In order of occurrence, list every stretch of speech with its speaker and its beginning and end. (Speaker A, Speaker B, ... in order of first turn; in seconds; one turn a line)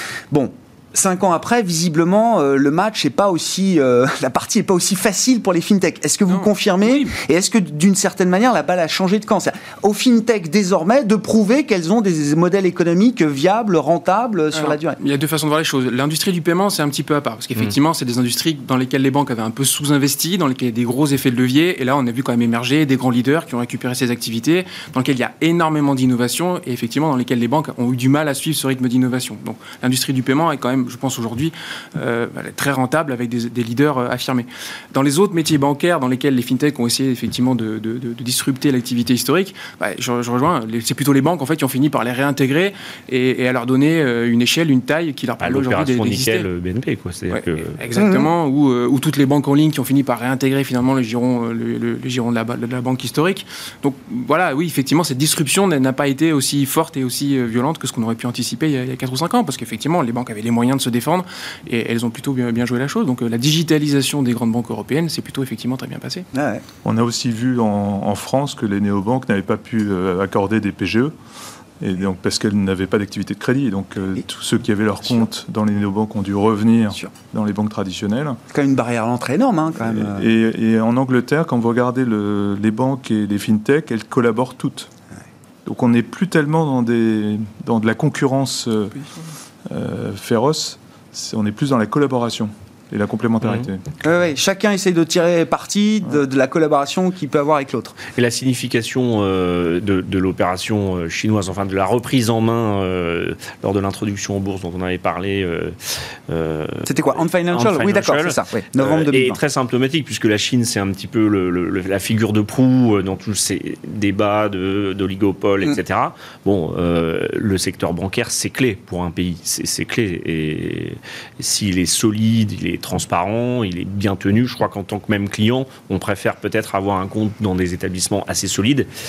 Speaker A: 0.3-15.0
Speaker B: 6.3-7.1
Speaker B: 14.5-46.5
Speaker C: 45.4-47.8
Speaker B: 47.3-66.2
Speaker A: 47.9-48.3
Speaker A: 66.3-66.6
Speaker D: 66.8-71.1
Speaker D: 71.8-78.4
Speaker A: 78.5-80.3
Speaker D: 79.8-84.9
Speaker D: 85.6-89.0
Speaker D: 89.7-93.8
Speaker A: 94.0-98.0
Speaker C: 98.1-128.9
Speaker A: 106.8-109.4